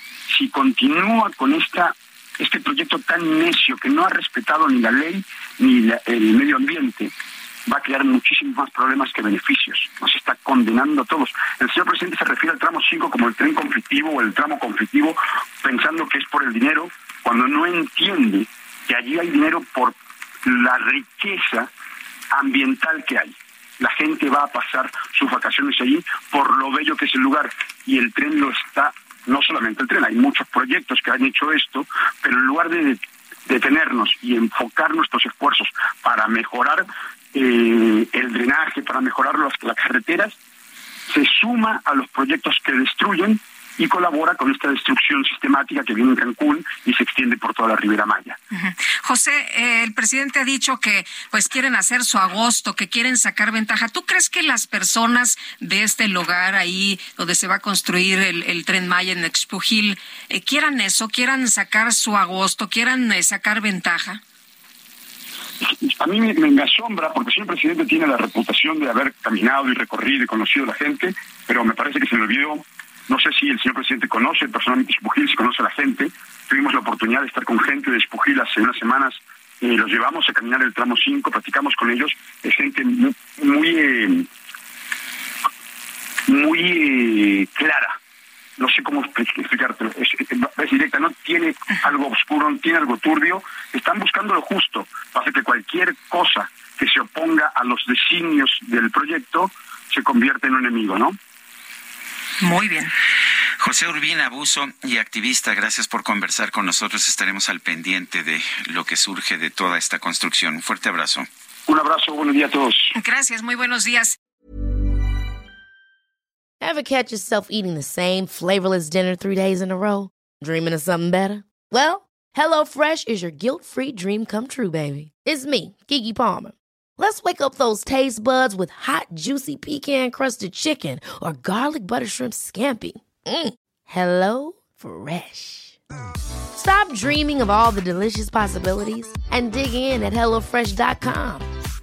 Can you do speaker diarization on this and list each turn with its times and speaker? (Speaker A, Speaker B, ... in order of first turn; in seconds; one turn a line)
Speaker A: 0.3-7.1
Speaker A: 7.7-21.7
Speaker A: 22.3-40.4
Speaker A: 41.1-48.4
Speaker B: 48.5-64.2
Speaker A: 65.6-84.3
Speaker A: 86.3-88.0
Speaker A: 88.6-101.2
Speaker B: 102.4-102.9
Speaker C: 103.6-111.3
Speaker A: 111.7-112.9
Speaker B: 112.9-114.2
Speaker D: 116.6-135.8
Speaker D: 136.5-141.4